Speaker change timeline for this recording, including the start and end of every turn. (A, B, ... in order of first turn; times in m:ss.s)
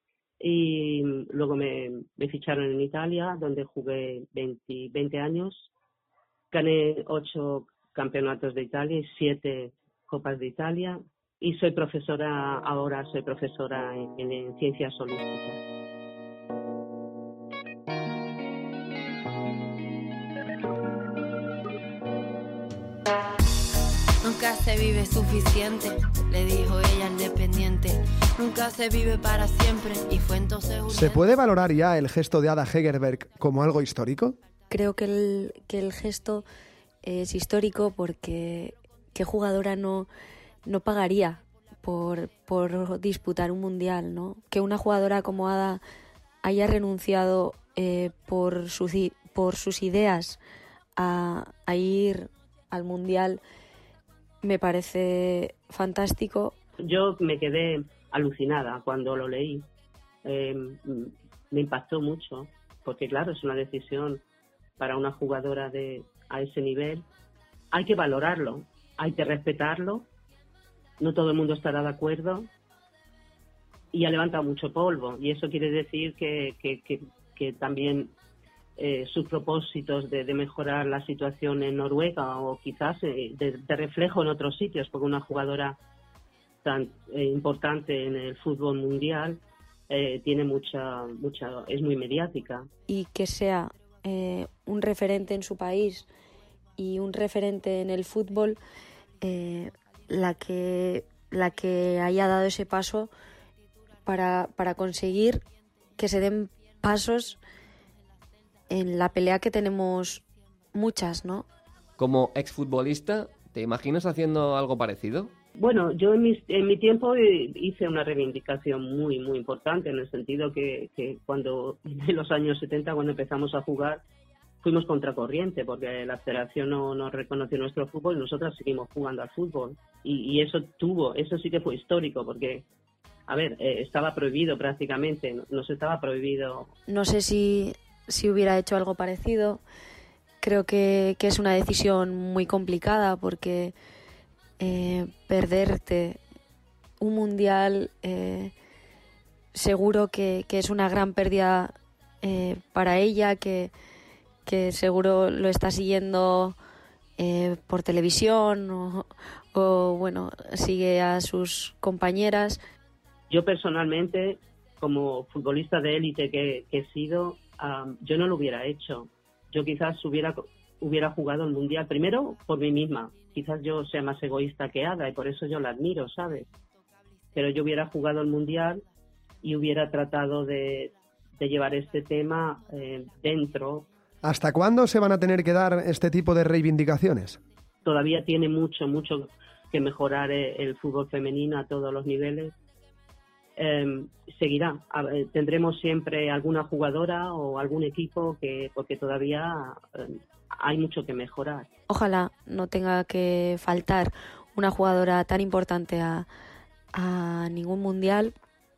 0:00.4-0:05.7 A
0:06.5-0:15.6 A
0:24.2-0:31.4 B
0:30.9-0:34.4 C
0:34.7-0:36.4 D
0:37.0-0:40.1 D
0:40.7-0:45.8 D
0:46.4-0:50.4 D
0:51.0-0:53.4 D
0:54.4-0:56.6 D
0:56.8-0:59.7 A
1:00.2-1:04.2 A
1:04.8-1:07.0 A
1:07.7-1:10.1 A
1:11.0-1:12.5 A
1:13.9-1:18.1 A
1:18.8-1:25.8 A
1:26.6-1:32.7 A
1:32.9-1:36.1 D
1:36.8-1:38.6 D
1:39.2-1:43.1 D
1:44.1-1:45.4 D
1:46.0-1:47.4 D
1:48.7-1:51.5 D
1:52.0-1:55.3 E
1:55.6-2:04.0 A
2:04.6-2:12.6 A
2:13.3-2:16.7 A
2:16.9-2:19.6 D
2:20.4-2:23.7 D
2:24.6-2:26.2 D
2:27.0-2:28.5 D
2:29.6-2:33.7 D
2:34.5-2:36.6 D
2:37.2-2:42.6 D
2:43.3-2:56.5 A
2:57.4-2:58.8 A
2:59.4-3:03.9 A
3:04.2-3:07.4 C
3:07.8-3:12.5 A
3:13.6-3:21.7 A
3:21.9-3:26.3 D
3:26.9-3:28.3 D